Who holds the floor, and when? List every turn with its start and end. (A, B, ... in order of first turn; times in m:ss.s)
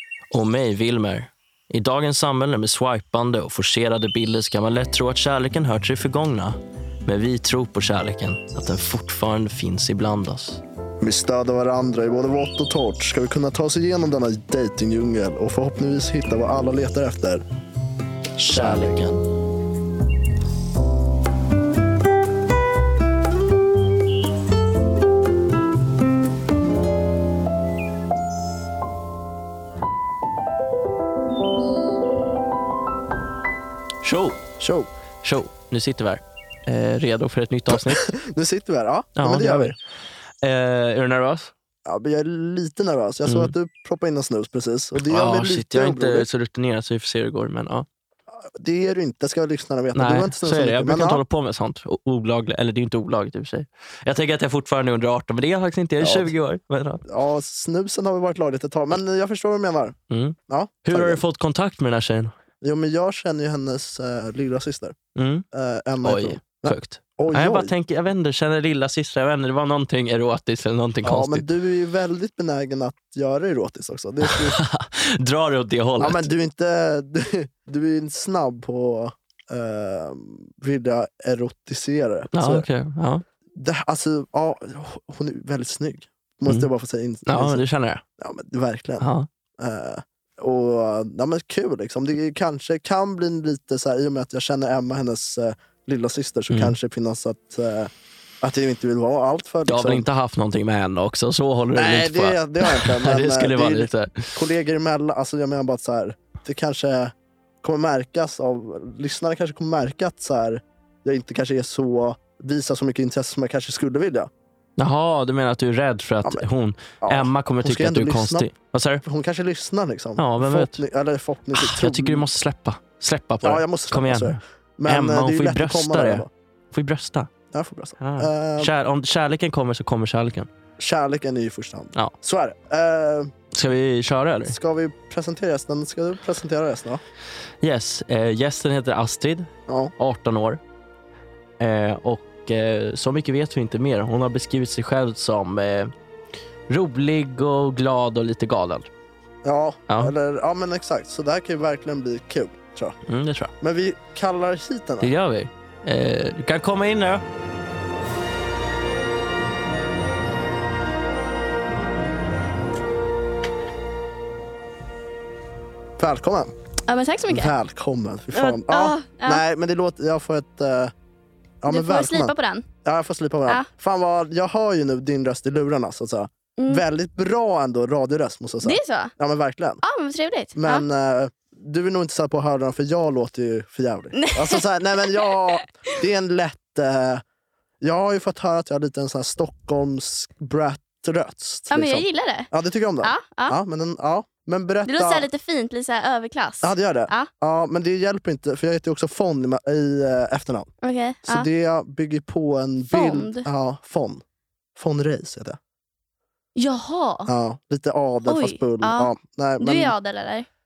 0:00.3-0:10.6 A
0:11.0-0:17.4 B
0:18.4-0:19.2 A
0:18.5-0:19.0 B
0:34.0-0:34.4 A
0:34.6-0:34.9 B
0:35.2-0:38.0 A
0:37.9-0:39.8 B
0:39.2-0:39.8 A
0:40.4-0:41.5 A
0:41.8-0:46.3 B
0:43.2-0:43.5 A
0:45.0-0:47.9 A
0:48.4-0:51.2 B
0:49.9-0:57.0 A
0:56.0-0:56.3 B
0:57.0-1:00.0 B
1:00.1-1:02.3 A
1:00.5-1:01.2 B
1:02.6-1:05.0 B
1:05.1-1:05.4 A
1:05.5-1:07.7 B
1:06.0-1:11.4 A
1:11.0-1:14.6 B
1:14.2-1:16.3 A
1:16.0-1:22.6 B
1:22.3-1:23.2 A
1:23.5-1:27.6 B
1:27.2-1:28.0 A
1:28.2-1:29.1 B
1:29.0-1:29.3 A
1:29.6-1:37.9 B
1:36.5-1:36.8 A
1:38.4-1:40.1 B
1:39.7-1:44.4 A
1:41.7-1:54.3 B
1:54.8-1:59.0 A
1:57.0-1:58.5 B
1:59.0-2:02.3 B
2:00.2-2:00.8 A
2:01.5-2:07.3 A
2:03.4-2:06.3 B
2:07.5-2:08.7 B
2:08.0-2:10.5 A
2:10.8-2:13.3 B
2:13.5-2:14.5 A
2:14.5-2:17.0 B
2:17.6-2:20.6 A
2:21.6-2:25.9 A
2:26.7-2:28.9 A
2:29.4-2:32.9 B
2:29.9-2:30.1 A
2:33.0-2:33.5 A
2:33.6-2:35.1 B
2:35.0-2:37.2 A
2:46.0-2:46.5 B
2:46.9-2:47.5 C
2:47.3-2:50.9 B
2:48.3-2:49.4 C
2:51.6-2:52.3 B
2:51.7-2:52.7 C
2:52.8-2:59.8 B
2:56.6-2:56.8 C
2:58.6-2:59.1 C
2:59.8-3:00.8 C
3:00.6-3:07.2 B
3:04.1-3:05.3 C
3:07.8-3:15.3 B
3:11.7-3:12.5 C
3:13.0-3:13.6 C
3:14.8-3:17.3 C
3:16.6-3:20.7 B
3:20.8-3:21.5 C
3:21.2-3:24.2 B
3:22.9-3:23.5 C
3:24.8-3:25.6 B
3:26.6-3:27.3 C
3:27.3-3:29.9 B
3:28.2-3:30.5 C